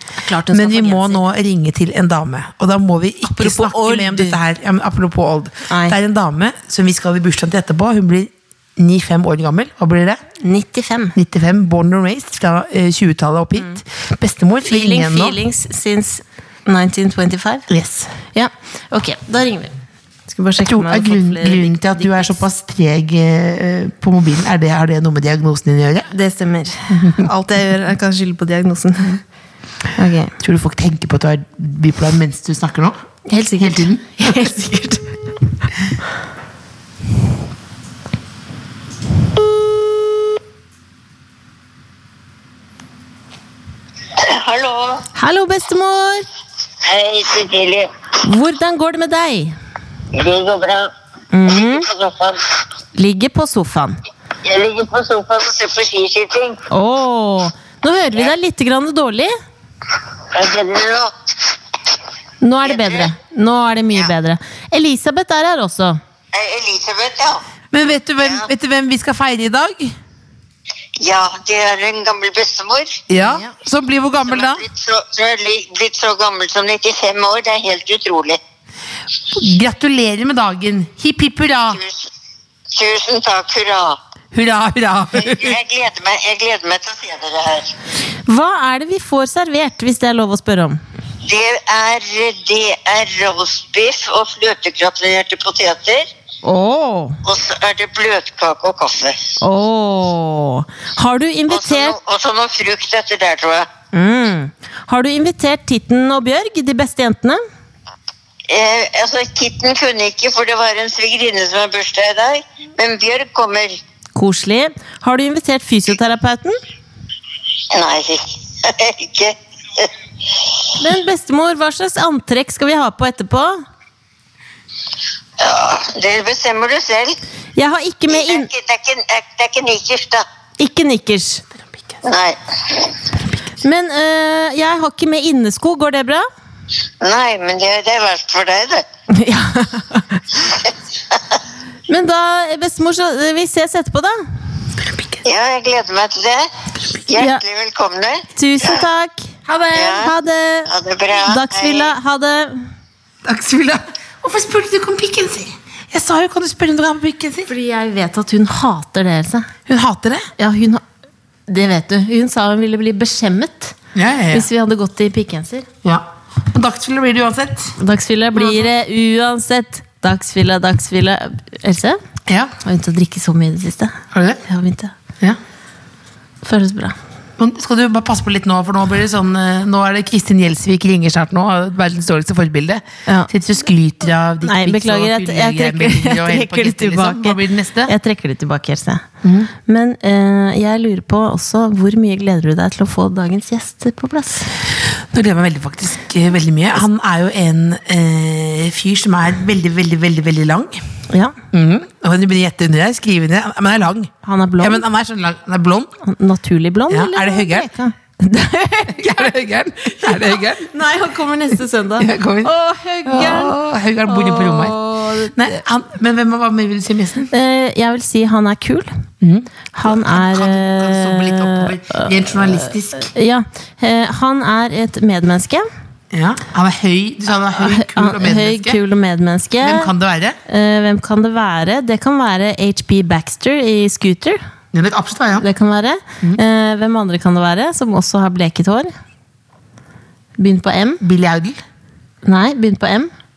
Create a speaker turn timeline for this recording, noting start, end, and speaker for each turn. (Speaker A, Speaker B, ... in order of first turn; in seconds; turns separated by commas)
Speaker A: 0.2-1.2, Speaker B: 0.5-10.2, Speaker A: 3.2-4.4, Speaker A: 5.7-6.0, Speaker A: 10.4-11.2, Speaker B: 11.2-15.4, Speaker A: 14.7-17.7, Speaker B: 17.7-18.1, Speaker A: 18.3-19.7, Speaker A: 20.3-22.4, Speaker B: 20.6-26.1, Speaker A: 26.1-29.2, Speaker B: 26.9-27.3, Speaker A: 30.0-30.4, Speaker B: 30.4-33.0, Speaker A: 33.3-35.2, Speaker B: 33.6-34.6, Speaker C: 44.2-45.0, Speaker A: 45.1-46.3, Speaker C: 46.8-47.9, Speaker A: 48.2-49.5, Speaker C: 50.1-50.9, Speaker A: 51.3-51.9, Speaker C: 51.5-52.5, Speaker A: 53.0-54.0, Speaker C: 54.4-56.6, Speaker A: 56.7-59.3, Speaker C: 60.3-61.1, Speaker A: 62.4-66.0, Speaker C: 62.7-63.1, Speaker C: 66.3-67.4, Speaker B: 67.7-70.0, Speaker C: 68.2-68.5, Speaker C: 71.0-73.0, Speaker B: 73.1-74.6, Speaker A: 73.2-73.5, Speaker C: 74.3-78.4, Speaker B: 79.3-81.8, Speaker C: 81.7-82.1, Speaker C: 82.7-84.0, Speaker B: 84.3-85.6, Speaker C: 85.2-87.7, Speaker A: 88.3-90.8, Speaker C: 91.2-96.1, Speaker A: 96.4-97.2, Speaker C: 97.2-99.4, Speaker A: 99.4-102.0, Speaker C: 101.5-103.7, Speaker A: 103.9-107.4, Speaker C: 108.5-113.8, Speaker A: 114.2-116.6, Speaker C: 117.7-119.9, Speaker A: 120.8-123.6, Speaker C: 125.4-127.2, Speaker A: 127.6-128.5, Speaker C: 128.1-130.2, Speaker A: 130.6-131.4, Speaker B: 131.7-132.0, Speaker C: 132.0-132.9, Speaker B: 133.1-133.5, Speaker A: 133.6-136.2, Speaker C: 137.0-138.8, Speaker A: 139.1-140.4, Speaker A: 141.9-144.2, Speaker B: 144.8-145.2, Speaker C: 145.2-146.5, Speaker C: 147.1-148.8, Speaker A: 147.2-147.4, Speaker A: 148.3-149.3, Speaker B: 149.5-150.1, Speaker C: 149.7-150.1, Speaker A: 150.0-152.7, Speaker C: 150.7-151.9, Speaker B: 153.2-157.5, Speaker A: 157.5-159.5, Speaker B: 159.7-160.3, Speaker A: 160.4-160.8, Speaker A: 161.5-163.8, Speaker B: 163.9-164.5, Speaker A: 164.3-165.7, Speaker B: 165.8-167.8, Speaker A: 167.8-172.0, Speaker B: 168.3-168.7, Speaker B: 172.3-172.5, Speaker A: 172.6-174.9, Speaker B: 174.1-174.4, Speaker A: 176.4-177.0, Speaker B: 177.4-187.9, Speaker A: 184.4-189.1, Speaker B: 189.2-189.5, Speaker A: 189.7-194.5, Speaker B: 195.1-200.8, Speaker A: 201.1-201.4, Speaker B: 201.5-205.9, Speaker A: 204.2-204.8, Speaker A: 206.0-215.4, Speaker B: 206.9-207.7, Speaker B: 208.9-210.7, Speaker B: 212.0-212.5, Speaker B: 213.1-214.8, Speaker B: 215.3-217.3, Speaker A: 217.3-218.9, Speaker B: 219.2-223.1, Speaker A: 219.7-225.7, Speaker B: 226.1-228.8, Speaker A: 227.6-229.9, Speaker B: 229.6-230.4, Speaker A: 230.5-234.4, Speaker B: 234.7-235.5, Speaker A: 235.4-238.9, Speaker A: 240.4-241.0, Speaker B: 241.0-241.6, Speaker A: 242.2-243.1